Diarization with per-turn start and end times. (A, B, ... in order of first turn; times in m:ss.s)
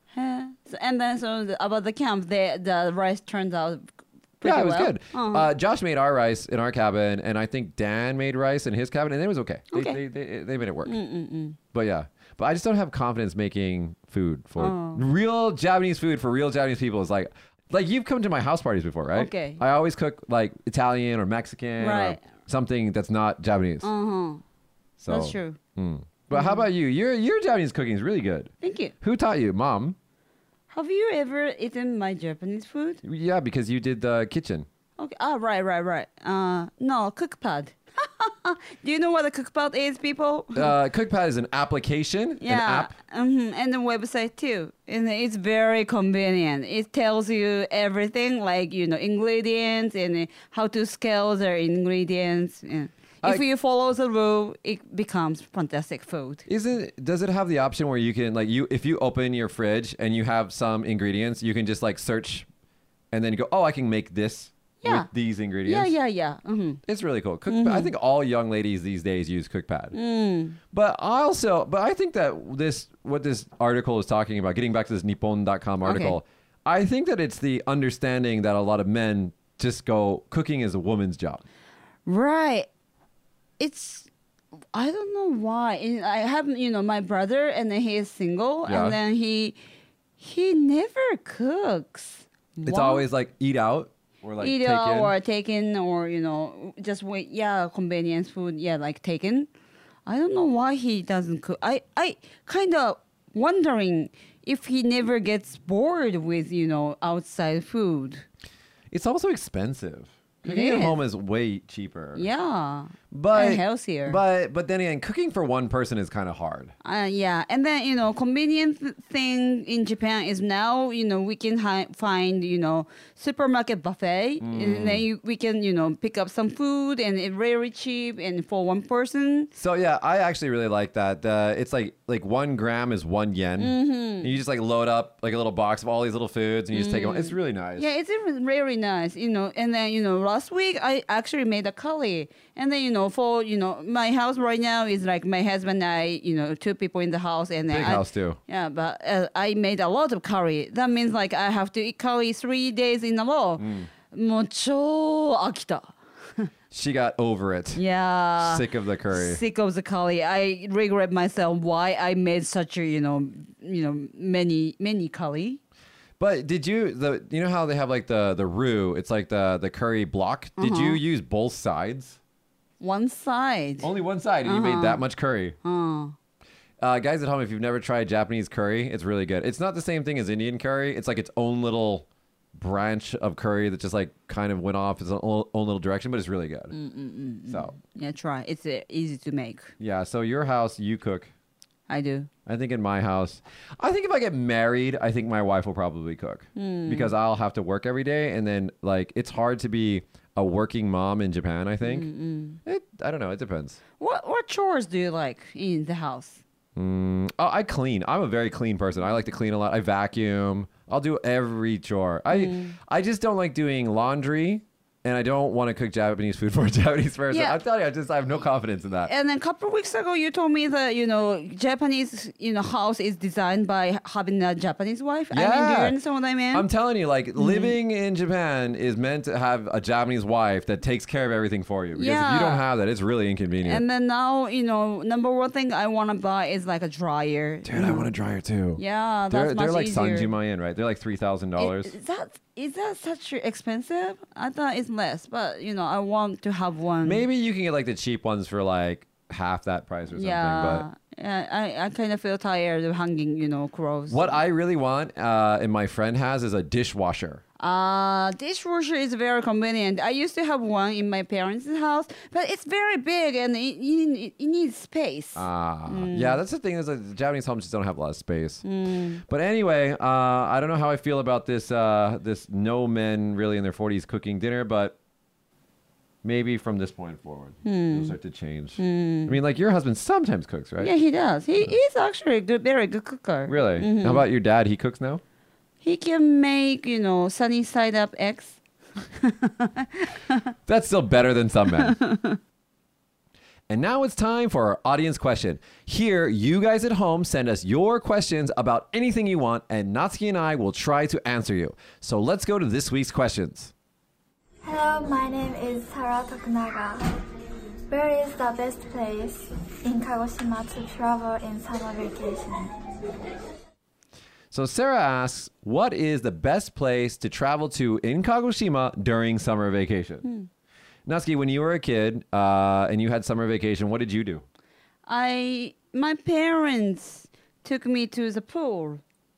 0:00.1-0:05.5 A
0:04.4-0:11.0 B
0:09.7-0:10.0 A
0:10.8-0:11.6 A
0:11.7-0:23.9 B
0:14.6-0:15.0 A
0:19.2-0:19.6 A
0:21.8-0:22.2 A
0:23.8-0:24.4 A
0:25.0-0:30.0 B
0:25.1-0:25.6 A
0:26.3-0:26.6 A
0:28.6-0:28.9 A
0:30.7-0:33.0 A
0:33.0-0:34.7 B
0:35.0-0:40.7 A
0:40.6-0:43.0 B
0:42.4-0:56.4 A
0:56.5-1:02.5 B
1:03.1-1:05.9 B
1:04.8-1:05.1 A
1:05.6-1:06.8 A
1:06.9-1:10.0 B
1:07.5-1:07.9 A
1:09.9-1:10.6 A
1:10.7-1:21.4 B
1:15.8-1:16.2 A
1:22.1-1:22.7 A
1:23.6-1:24.1 A
1:24.7-1:29.6 A
1:28.7-1:29.0 B
1:30.2-1:33.0 A
1:32.6-1:35.1 B
1:34.4-1:39.5 A
1:40.1-1:48.2 A
1:48.9-1:52.3 B
1:50.4-1:51.0 A
1:52.2-1:54.2 A
1:53.1-1:56.7 B
1:56.8-2:09.5 A
2:04.4-2:05.1 B
2:09.6-2:17.9 B
2:13.6-2:14.3 A
2:16.7-2:36.5 A
2:27.7-2:28.4 B
2:33.6-2:33.9 B
2:36.7-2:37.8 B
2:37.8-2:45.6 A
2:38.4-2:39.4 B
2:46.2-2:52.2 B
2:50.6-2:51.0 A
2:52.8-2:53.9 A
2:53.8-2:55.6 B
2:54.4-2:55.0 A
2:55.6-2:56.2 A
2:56.8-3:06.8 B
3:06.7-3:09.7 A
3:07.5-3:07.8 B
3:09.8-3:11.3 B
3:11.9-3:12.3 A
3:12.5-3:22.1 B
3:16.6-3:17.1 A
3:21.8-3:22.6 A
3:22.6-3:23.8 B
3:24.0-3:26.4 A
3:26.8-3:39.1 B
3:32.3-3:32.8 A
3:37.3-3:37.6 A
3:39.1-3:46.7 A
3:45.3-3:46.0 B
3:46.5-3:53.8 B
3:47.4-3:47.8 A
3:52.0-3:52.6 A
3:53.6-3:58.1 A
3:57.7-4:01.9 B
3:58.8-4:00.3 A
4:01.6-4:07.2 A
4:07.0-4:10.9 B
4:10.1-4:14.4 A
4:14.1-4:17.4 B
4:17.6-4:26.4 A
4:25.4-4:28.6 B
4:28.6-4:29.2 A
4:29.3-4:35.0 B
4:36.2-4:40.9 B
4:37.6-4:38.2 A
4:38.8-4:39.4 A
4:40.8-4:44.2 A
4:43.5-4:45.2 B
4:45.8-4:48.6 A
4:49.2-4:50.5 A
4:50.7-4:52.0 B
4:51.7-4:52.4 A
4:53.7-5:03.7 B
5:04.6-5:07.2 C
5:07.9-5:12.8 C
5:14.5-5:20.3 B
5:21.1-5:24.4 B
5:25.1-5:29.0 A